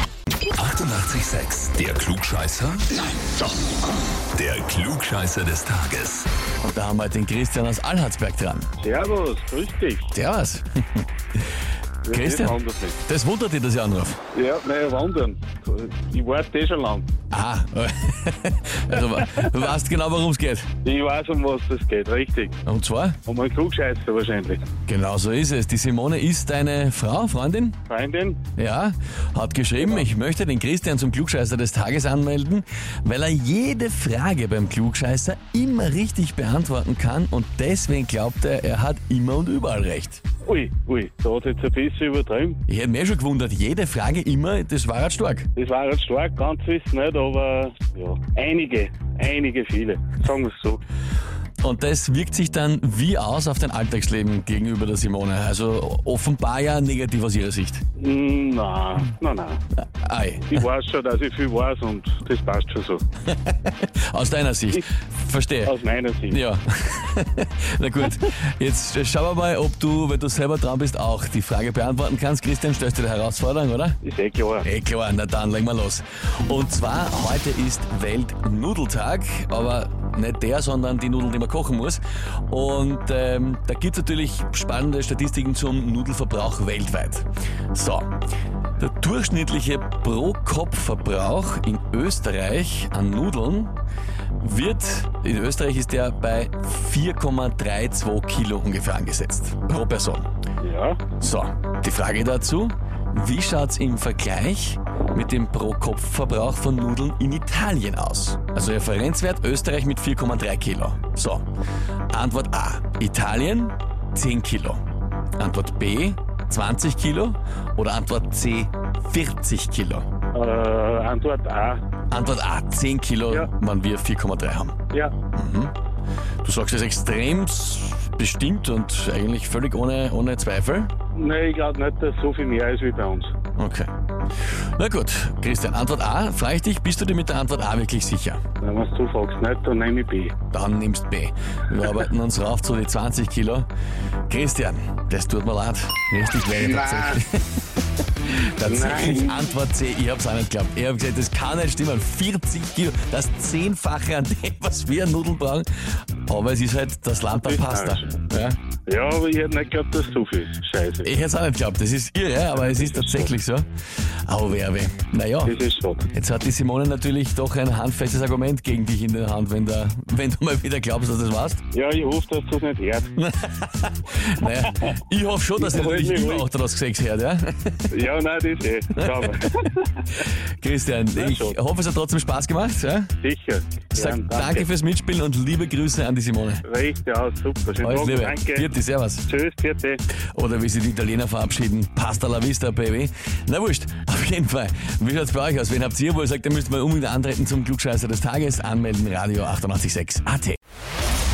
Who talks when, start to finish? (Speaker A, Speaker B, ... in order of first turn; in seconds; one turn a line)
Speaker A: 0.5-3.0
Speaker A: 4.3-6.3
Speaker B: 6.6-8.7
Speaker C: 8.8-10.1
Speaker B: 10.1-11.1
Speaker C: 12.0-13.0
Speaker B: 12.1-14.2
Speaker C: 14.3-17.1
Speaker B: 17.3-20.7
Speaker C: 19.2-19.5
Speaker C: 20.8-22.6
Speaker B: 22.6-23.2
Speaker C: 23.2-24.6
Speaker B: 24.9-27.8
Speaker C: 27.9-28.4
Speaker B: 28.6-40.2
Speaker C: 29.8-30.1
Speaker C: 40.4-42.6
Speaker B: 42.7-45.5
Speaker C: 45.5-50.8
Speaker B: 51.6-57.8
Speaker C: 58.0-59.6
Speaker B: 59.8-60.6
Speaker C: 60.5-63.0
Speaker B: 63.3-65.7
Speaker C: 65.6-66.4
Speaker B: 66.3-74.0
Speaker C: 74.0-74.7
Speaker B: 74.6-88.1
Speaker B: 88.8-93.7
Speaker B: 94.4-100.3
Speaker C: 100.6-101.0
Speaker B: 101.2-111.5
Speaker B: 112.1-114.8
Speaker B: 115.4-120.1
Speaker C: 120.3-121.8
Speaker B: 122.1-124.7
Speaker B: 125.3-125.7
Speaker B: 126.4-130.9
Speaker C: 131.1-133.3
Speaker B: 133.6-133.9
Speaker B: 134.8-138.4
Speaker C: 138.6-140.3
Speaker B: 140.5-143.7
Speaker B: 144.3-147.6
Speaker C: 146.5-147.2
Speaker B: 148.2-155.7
Speaker C: 148.6-149.3
Speaker B: 156.3-158.6
Speaker C: 157.3-158.1
Speaker C: 158.9-161.3
Speaker B: 161.0-163.7
Speaker C: 162.5-163.3
Speaker B: 164.3-165.6
Speaker C: 165.4-166.1
Speaker B: 166.1-171.6
Speaker C: 171.7-173.1
Speaker B: 173.2-177.9
Speaker C: 174.7-175.0
Speaker C: 175.6-176.5
Speaker C: 177.9-180.1
Speaker B: 178.9-179.7
Speaker B: 180.2-183.1
Speaker C: 181.2-181.6
Speaker C: 183.2-184.7
Speaker B: 183.9-186.6
Speaker C: 186.6-188.7
Speaker B: 187.8-189.2
Speaker C: 189.2-190.0
Speaker B: 190.3-200.6